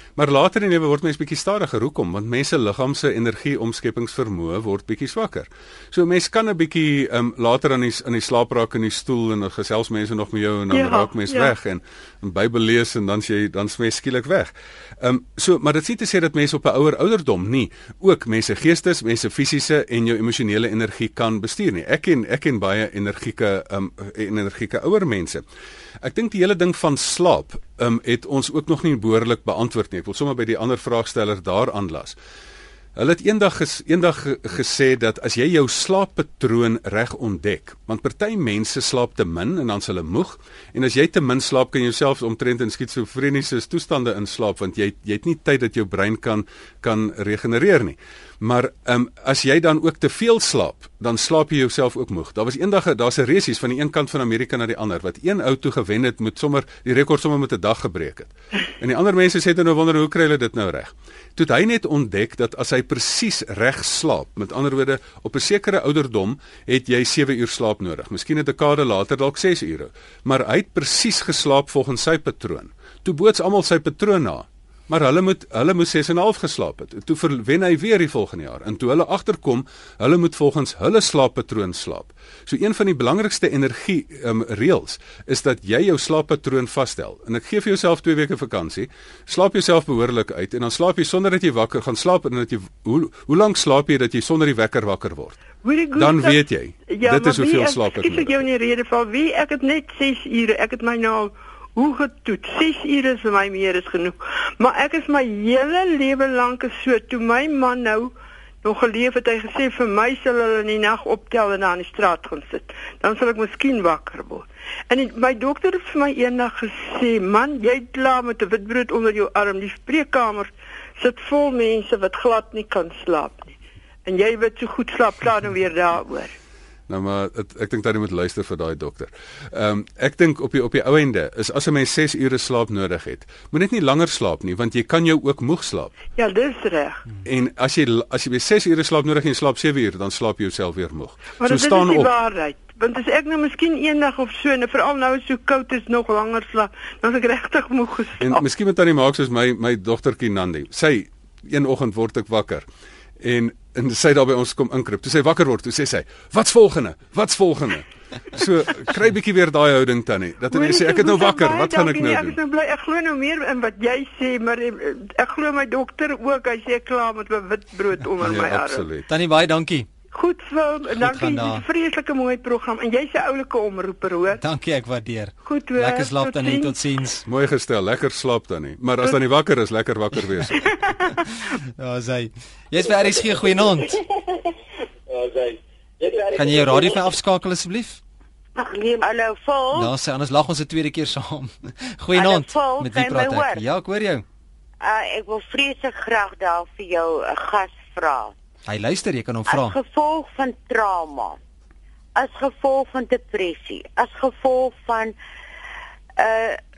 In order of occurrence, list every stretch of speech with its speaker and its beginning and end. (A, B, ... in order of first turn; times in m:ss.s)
0:00.2-0:25.4 A
0:10.7-0:11.5 B
0:26.0-0:32.2 A
0:33.0-1:35.4 A
1:35.6-2:03.5 B
1:35.9-1:38.4 A
2:04.0-2:06.3 B
2:06.9-2:15.9 A
2:16.2-2:17.0 B
2:17.2-2:22.1 A
2:21.4-2:28.4 B
2:28.2-2:32.6 A
2:33.2-2:42.4 A
2:40.5-2:48.9 B
2:48.2-2:49.1 A
2:49.1-2:49.9 C
2:50.1-2:54.4 B
2:51.0-2:51.6 C
2:54.4-2:57.2 C
2:55.4-2:56.8 B
2:57.2-3:00.7 A
3:00.7-3:01.1 B
3:01.8-3:04.0 C
3:06.3-3:08.0 C
3:08.6-3:09.9 D
3:09.7-3:14.2 C
3:12.1-3:13.6 D
3:14.8-3:18.3 D
3:18.6-3:19.8 C
3:19.5-3:21.4 D
3:22.2-3:25.2 D
3:26.2-3:26.6 D